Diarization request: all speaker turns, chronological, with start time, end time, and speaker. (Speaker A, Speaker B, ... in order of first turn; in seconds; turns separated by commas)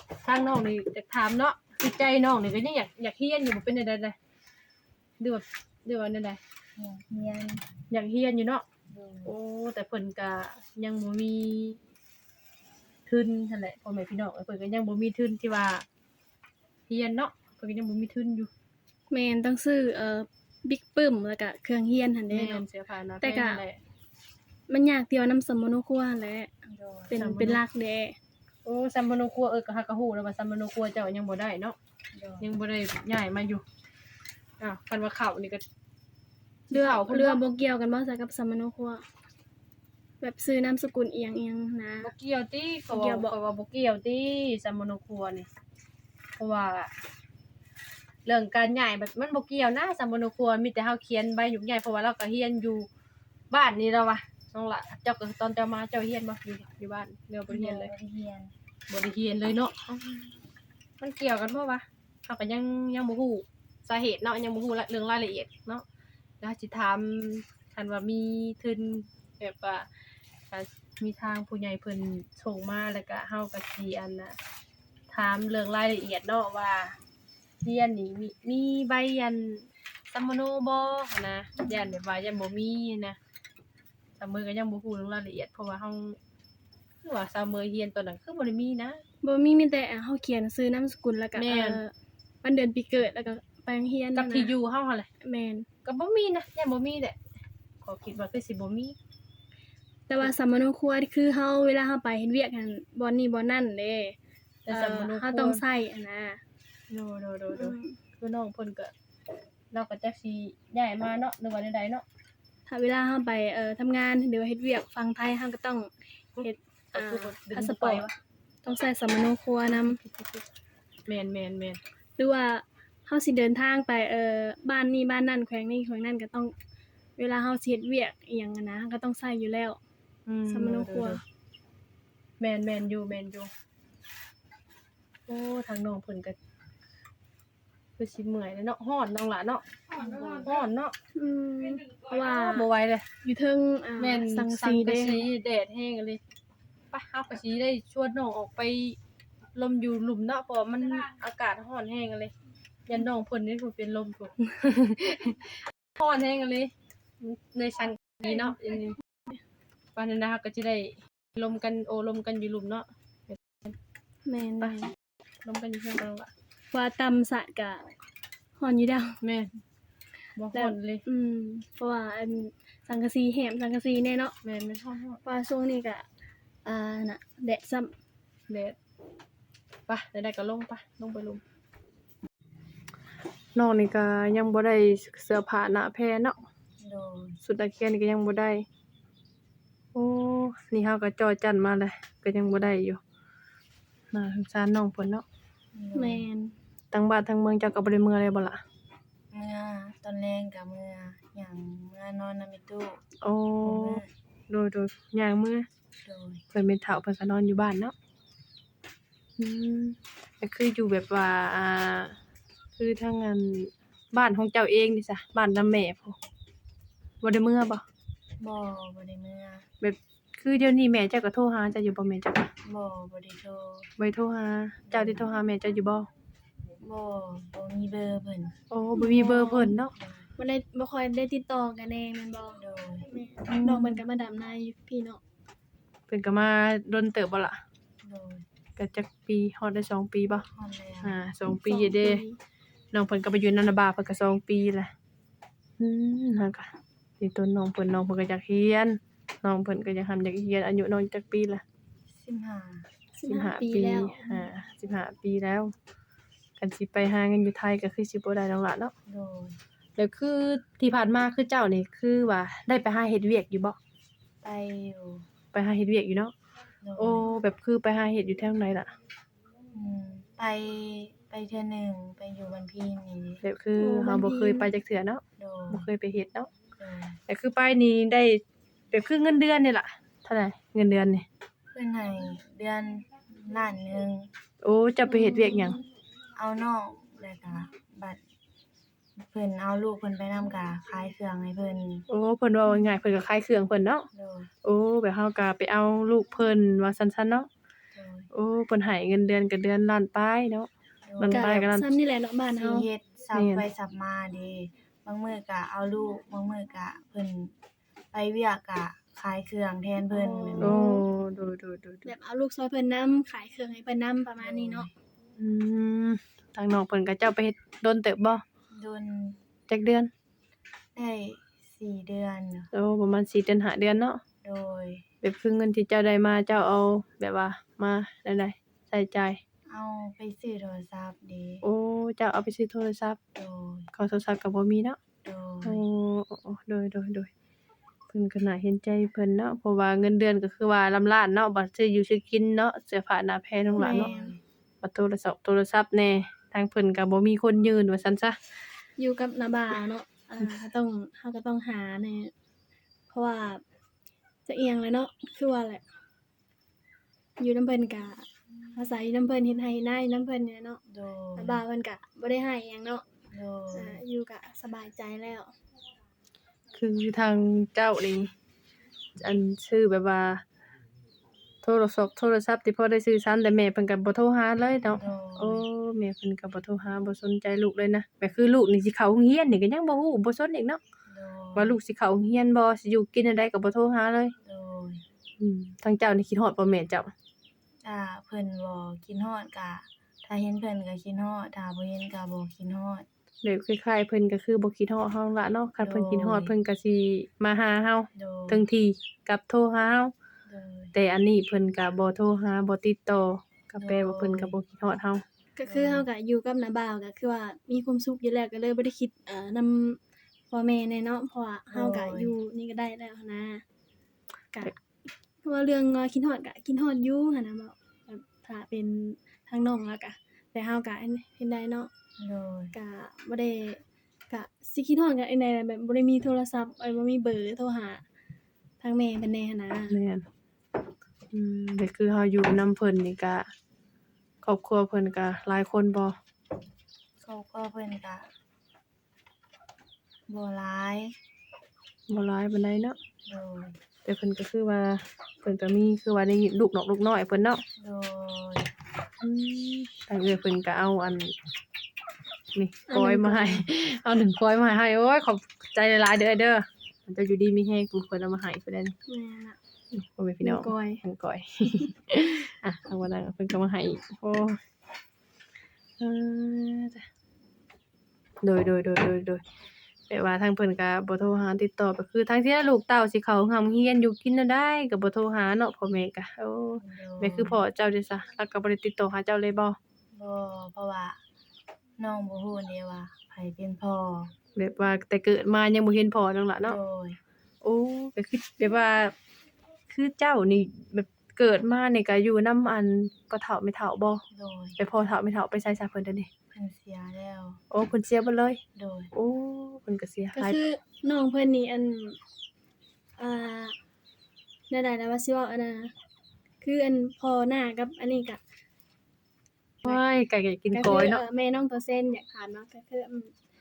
Speaker A: 0.2-4.2, Speaker A: 5.2-6.4, Speaker B: 6.8-7.7, Speaker A: 7.9-8.6, Speaker B: 8.9-9.3, Speaker A: 9.2-11.8, Speaker A: 13.1-15.8, Speaker A: 16.9-18.5, Speaker C: 19.1-22.6, Speaker A: 22.3-23.8, Speaker C: 23.2-23.6, Speaker C: 24.7-26.5, Speaker B: 26.6-27.2, Speaker C: 27.1-28.2, Speaker A: 27.2-27.6, Speaker A: 28.6-31.8, Speaker B: 32.1-32.5, Speaker A: 32.4-33.6, Speaker A: 34.6-35.6, Speaker A: 36.7-37.4, Speaker C: 36.7-39.0, Speaker C: 40.2-42.1, Speaker A: 42.0-45.5, Speaker C: 42.9-43.4, Speaker A: 46.4-46.9, Speaker A: 48.3-52.9, Speaker A: 53.5-57.9, Speaker B: 57.5-58.5, Speaker A: 58.9-60.2, Speaker A: 61.0-65.8, Speaker A: 66.4-69.9, Speaker A: 70.5-74.4, Speaker A: 75.1-77.0, Speaker A: 77.6-83.2, Speaker A: 84.2-86.2, Speaker A: 87.0-89.0, Speaker C: 89.2-91.9, Speaker A: 91.4-91.8, Speaker C: 92.4-94.5, Speaker A: 94.2-95.1, Speaker C: 95.2-95.7, Speaker A: 95.8-97.2, Speaker A: 97.8-99.0, Speaker C: 100.1-104.2, Speaker A: 104.7-105.6, Speaker C: 104.7-106.4, Speaker A: 106.9-108.9, Speaker C: 107.5-108.0, Speaker A: 109.7-112.0, Speaker C: 112.7-118.1, Speaker A: 116.3-118.1, Speaker C: 118.6-120.0, Speaker A: 119.7-120.5, Speaker A: 121.1-121.8, Speaker C: 122.2-126.5, Speaker C: 127.2-129.8, Speaker A: 130.3-131.2, Speaker C: 130.5-131.2, Speaker A: 132.4-133.5, Speaker A: 135.3-136.4, Speaker A: 138.0-139.6, Speaker C: 140.0-140.5, Speaker A: 140.4-140.9, Speaker C: 141.1-142.7, Speaker A: 142.1-143.1, Speaker C: 143.2-145.3, Speaker A: 144.0-146.2, Speaker A: 146.9-149.0, Speaker A: 149.6-152.3, Speaker A: 152.9-159.0, Speaker A: 160.0-163.7, Speaker C: 164.3-164.9, Speaker A: 165.4-166.3, Speaker C: 166.7-167.9, Speaker C: 168.6-169.2, Speaker A: 169.2-169.5, Speaker A: 170.4-171.0, Speaker C: 170.5-174.3, Speaker A: 174.4-175.2, Speaker C: 175.2-176.1, Speaker C: 176.6-177.9, Speaker A: 178.5-178.8, Speaker A: 179.9-181.4, Speaker A: 183.6-186.4, Speaker B: 186.8-187.4, Speaker A: 187.4-188.7, Speaker A: 189.9-193.0, Speaker A: 194.1-195.2, Speaker B: 195.8-196.3, Speaker C: 195.9-196.6, Speaker A: 196.9-198.6, Speaker B: 199.3-203.0, Speaker A: 203.2-205.7, Speaker B: 203.6-204.1, Speaker B: 206.1-206.4, Speaker A: 206.5-207.9, Speaker A: 209.4-212.2, Speaker A: 212.8-216.2, Speaker A: 217.2-217.8, Speaker B: 218.4-219.7, Speaker A: 219.8-222.5, Speaker B: 222.6-223.9, Speaker A: 224.0-226.1, Speaker B: 224.9-225.3, Speaker B: 226.8-228.6, Speaker A: 228.7-229.9, Speaker C: 229.0-229.8, Speaker B: 229.9-230.3, Speaker C: 230.4-235.2, Speaker B: 232.6-233.1, Speaker A: 233.5-234.0, Speaker A: 236.1-237.6, Speaker B: 238.0-238.5, Speaker A: 238.8-240.4, Speaker B: 240.5-241.2, Speaker A: 241.0-242.2, Speaker C: 241.5-242.4, Speaker A: 242.9-244.9, Speaker A: 245.8-246.7, Speaker A: 247.2-251.6, Speaker B: 252.1-252.9, Speaker C: 253.2-254.5, Speaker A: 253.2-255.7, Speaker A: 256.6-258.9, Speaker B: 259.1-259.6, Speaker A: 260.0-263.8, Speaker B: 264.4-265.3, Speaker A: 265.5-266.3, Speaker B: 266.8-267.3, Speaker A: 267.0-268.9, Speaker B: 269.7-273.4, Speaker A: 273.4-276.5, Speaker C: 273.8-274.7, Speaker B: 275.4-275.9, Speaker B: 276.8-277.2, Speaker A: 277.3-278.4, Speaker A: 278.9-281.3, Speaker B: 281.7-284.3, Speaker A: 284.6-285.8, Speaker C: 285.1-285.8, Speaker B: 286.4-288.2, Speaker B: 289.2-292.1, Speaker A: 292.1-294.1, Speaker B: 294.1-294.5, Speaker A: 294.6-297.5, Speaker B: 297.9-298.3, Speaker A: 298.3-301.9, Speaker B: 301.1-301.6, Speaker C: 301.3-302.9, Speaker B: 302.5-307.5, Speaker A: 303.3-303.6, Speaker B: 308.1-310.8, Speaker A: 310.1-312.1, Speaker C: 310.5-311.1, Speaker C: 312.1-314.9, Speaker B: 314.4-314.9, Speaker A: 315.4-318.4, Speaker B: 318.7-319.4, Speaker A: 319.7-320.1, Speaker B: 320.9-322.7, Speaker A: 322.7-324.2, Speaker B: 324.4-325.0, Speaker A: 325.2-329.4, Speaker B: 329.7-331.6, Speaker A: 331.6-333.2, Speaker B: 333.4-333.9, Speaker A: 333.9-335.0, Speaker B: 335.2-335.8, Speaker A: 335.6-337.3, Speaker A: 338.1-344.1, Speaker B: 343.8-344.4, Speaker C: 343.8-344.3, Speaker A: 344.8-348.4, Speaker C: 349.0-352.3, Speaker C: 353.1-353.6, Speaker C: 354.4-355.8, Speaker C: 357.4-360.8, Speaker B: 360.9-361.6, Speaker C: 361.4-363.0, Speaker B: 363.3-364.0, Speaker C: 363.7-365.5, Speaker A: 366.7-368.3, Speaker A: 369.2-370.4, Speaker A: 371.6-380.8, Speaker B: 375.0-375.6, Speaker B: 381.1-381.8, Speaker A: 381.6-384.3, Speaker B: 384.4-385.0, Speaker A: 385.4-387.1, Speaker B: 387.8-393.1, Speaker A: 393.4-400.1, Speaker B: 395.8-396.6, Speaker B: 398.1-398.6, Speaker B: 400.5-400.9, Speaker A: 400.9-405.2, Speaker B: 403.8-404.6, Speaker C: 405.6-413.6, Speaker B: 405.7-406.1, Speaker B: 411.7-412.3, Speaker C: 415.4-421.9, Speaker B: 422.2-422.8, Speaker C: 422.7-428.0, Speaker C: 428.8-430.0, Speaker A: 429.9-430.3, Speaker A: 431.3-433.5, Speaker A: 434.4-436.2, Speaker B: 437.2-438.3, Speaker B: 440.3-441.2, Speaker A: 442.1-443.0, Speaker B: 443.3-443.8, Speaker A: 444.1-447.6, Speaker B: 447.8-448.7, Speaker A: 449.2-451.3, Speaker A: 452.6-458.9, Speaker C: 452.9-453.7, Speaker C: 459.1-459.6, Speaker A: 459.9-464.6, Speaker C: 460.4-461.0, Speaker A: 466.0-467.1, Speaker A: 468.4-469.4, Speaker A: 470.1-479.8, Speaker B: 476.8-477.6, Speaker B: 480.1-481.2, Speaker B: 482.0-484.3, Speaker A: 484.6-486.8, Speaker B: 486.6-487.2, Speaker A: 487.6-489.1, Speaker A: 489.9-494.2, Speaker B: 494.3-494.8, Speaker A: 494.8-496.3, Speaker B: 496.5-497.6, Speaker A: 497.7-498.6, Speaker B: 498.8-499.1, Speaker A: 499.1-500.6, Speaker C: 500.3-502.2, Speaker C: 503.2-503.8, Speaker C: 504.7-505.9, Speaker C: 506.6-508.4, Speaker A: 509.9-511.2, Speaker C: 510.7-513.3